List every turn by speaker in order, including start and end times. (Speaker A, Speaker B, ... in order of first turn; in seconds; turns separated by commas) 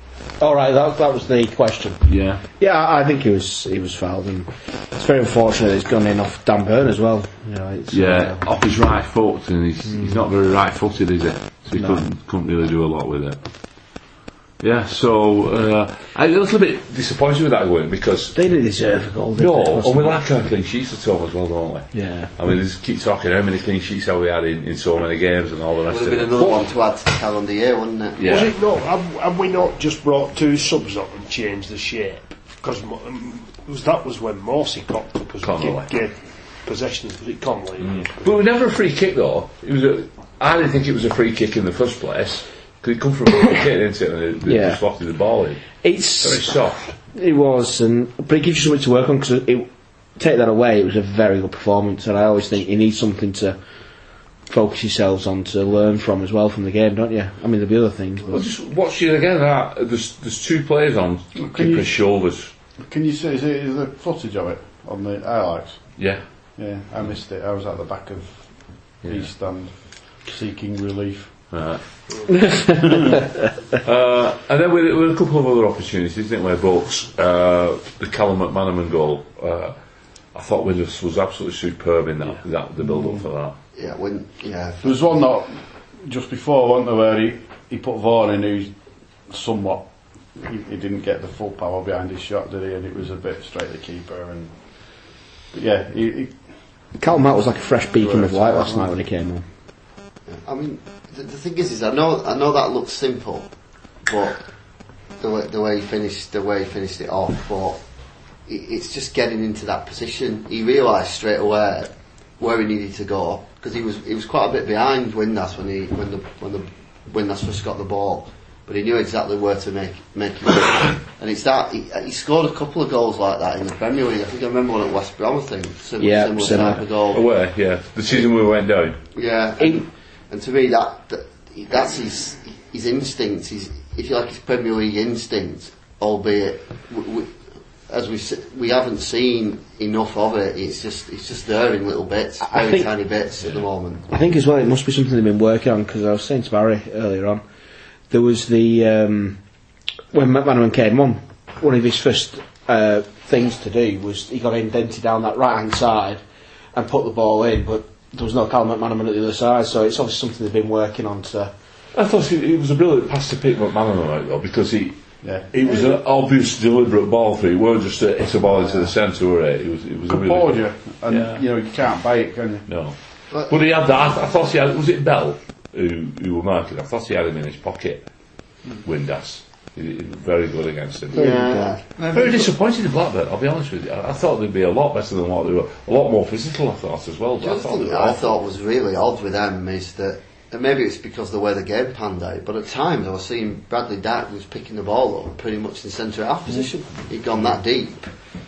Speaker A: 0.4-2.0, Speaker B: 2.1-2.4, Speaker A: 2.6-8.4, Speaker B: 7.9-13.4, Speaker A: 11.8-12.0, Speaker B: 14.6-18.4, Speaker A: 18.3-20.2, Speaker B: 19.4-26.6, Speaker A: 21.9-22.3, Speaker C: 25.9-28.2, Speaker B: 28.2-28.5, Speaker D: 28.2-38.4, Speaker B: 35.4-35.9, Speaker B: 37.8-45.7, Speaker A: 44.4-44.8, Speaker A: 45.8-46.6, Speaker B: 46.2-47.0, Speaker A: 47.1-53.6, Speaker A: 54.5-58.4, Speaker B: 58.3-62.5, Speaker E: 61.4-61.9, Speaker E: 62.9-65.9, Speaker E: 66.6-71.3, Speaker B: 69.0-69.3, Speaker B: 71.5-71.8, Speaker E: 72.8-73.1, Speaker B: 73.8-79.8, Speaker B: 80.3-83.6, Speaker C: 83.8-85.1, Speaker E: 84.8-88.7, Speaker E: 89.3-94.5, Speaker E: 95.5-96.4, Speaker A: 97.0-99.5, Speaker E: 98.0-99.0, Speaker C: 100.3-103.5, Speaker C: 104.1-104.4, Speaker C: 105.2-107.8, Speaker C: 108.5-127.2, Speaker A: 126.0-126.8, Speaker B: 126.6-129.0, Speaker C: 129.2-137.3, Speaker C: 137.9-144.1, Speaker A: 142.4-142.9, Speaker A: 144.1-147.4, Speaker A: 148.1-149.4, Speaker A: 150.1-156.2, Speaker A: 156.7-161.5, Speaker B: 161.9-165.0, Speaker E: 165.2-165.9, Speaker B: 165.5-171.4, Speaker E: 168.6-168.9, Speaker E: 170.1-172.7, Speaker B: 172.7-178.1, Speaker C: 173.3-173.6, Speaker B: 178.8-181.5, Speaker A: 181.1-181.8, Speaker C: 181.1-181.8, Speaker E: 182.0-182.5, Speaker B: 182.1-188.3, Speaker C: 187.4-198.1